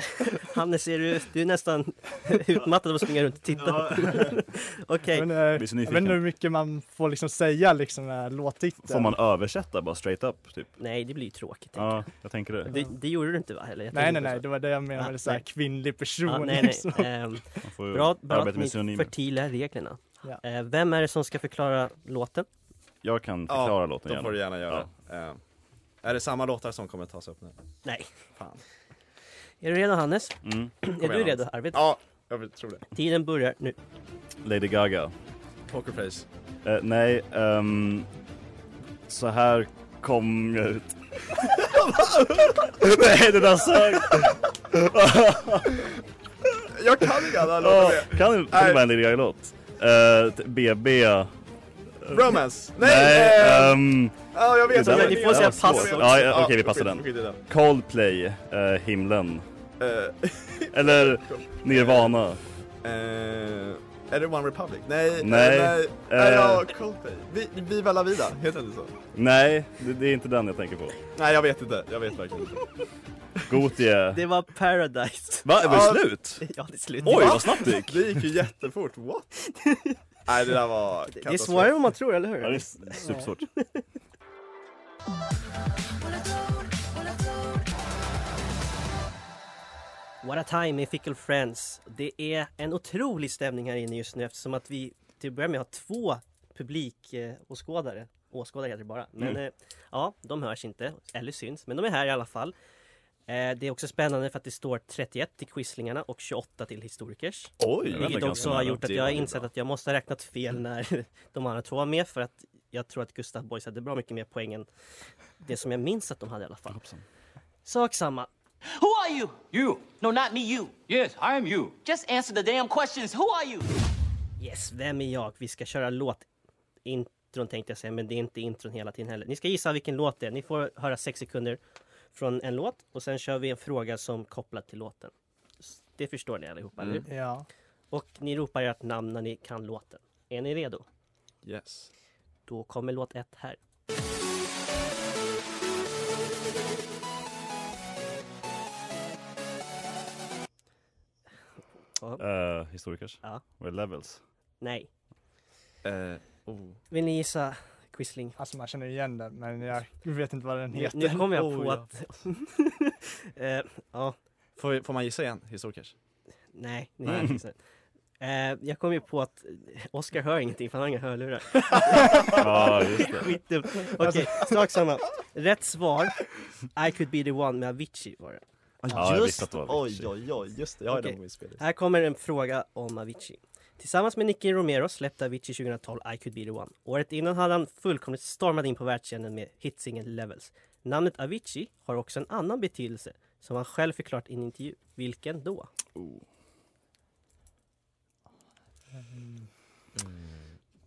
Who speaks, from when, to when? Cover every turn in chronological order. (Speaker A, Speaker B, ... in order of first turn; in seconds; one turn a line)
Speaker A: 0.2-5.3
Speaker B: 3.7-4.3
Speaker C: 5.1-9.1
Speaker B: 5.5-6.2
Speaker B: 8.8-10.7
Speaker A: 10.8-12.1
Speaker B: 11.8-12.7
Speaker A: 12.6-15.4
Speaker C: 13.9-17.1
Speaker A: 16.3-22.5
Speaker B: 17.6-19.1
Speaker B: 23.0-24.9
Speaker D: 23.5-25.4
Speaker D: 26.0-27.6
Speaker D: 28.4-28.6
Speaker A: 29.6-31.8
Speaker B: 30.4-30.7
Speaker D: 31.0-32.9
Speaker A: 32.9-33.8
Speaker B: 34.4-35.1
Speaker D: 35.7-36.3
Speaker B: 36.6-38.1
Speaker B: 39.1-41.8
Speaker B: 42.5-45.9
Speaker D: 46.7-48.8
Speaker B: 47.5-51.3
Speaker B: 52.0-59.4
Speaker D: 52.1-53.8
Speaker D: 54.3-57.4
Speaker A: 54.8-56.2
Speaker D: 59.8-62.2
Speaker B: 60.7-62.4
Speaker D: 62.8-69.0
Speaker B: 65.2-66.7
Speaker B: 69.1-71.0
Speaker D: 71.2-72.6
Speaker B: 73.5-74.2
Speaker A: 74.1-75.8
Speaker B: 75.5-76.5
Speaker D: 75.6-76.1
Speaker A: 76.4-77.6
Speaker B: 77.0-78.2
Speaker D: 77.0-79.3
Speaker A: 79.5-80.0
Speaker D: 80.3-81.8
Speaker A: 81.1-83.8
Speaker B: 82.4-83.5
Speaker A: 90.2-102.5
Speaker A: 103.3-114.7
Speaker D: 107.6-109.5
Speaker B: 107.8-109.0
Speaker A: 115.4-116.8
Speaker B: 116.7-117.0
Speaker A: 117.7-118.3
Speaker E: 118.7-123.8
Speaker A: 124.4-126.2
Speaker A: 126.8-131.6
Speaker A: 132.1-137.1
Speaker D: 136.8-137.1
Speaker C: 137.1-137.5
Speaker A: 137.9-140.8
Speaker D: 141.4-141.9
Speaker A: 142.5-143.6
Speaker B: 152.2-154.2
Speaker A: 154.6-154.9
Speaker D: 155.8-156.8
Speaker A: 156.9-158.4
Speaker C: 158.4-161.3
Speaker A: 160.7-164.2
Speaker D: 161.3-161.9
Speaker D: 164.6-165.9
Speaker A: 166.5-167.6
Speaker A: 168.2-176.2
Speaker B: 172.3-173.4
Speaker C: 173.9-174.6
Speaker A: 176.8-178.4
Speaker D: 178.8-181.6
Speaker B: 178.9-180.1
Speaker A: 180.9-195.7
Speaker B: 196.0-196.2
Speaker D: 200.0-200.4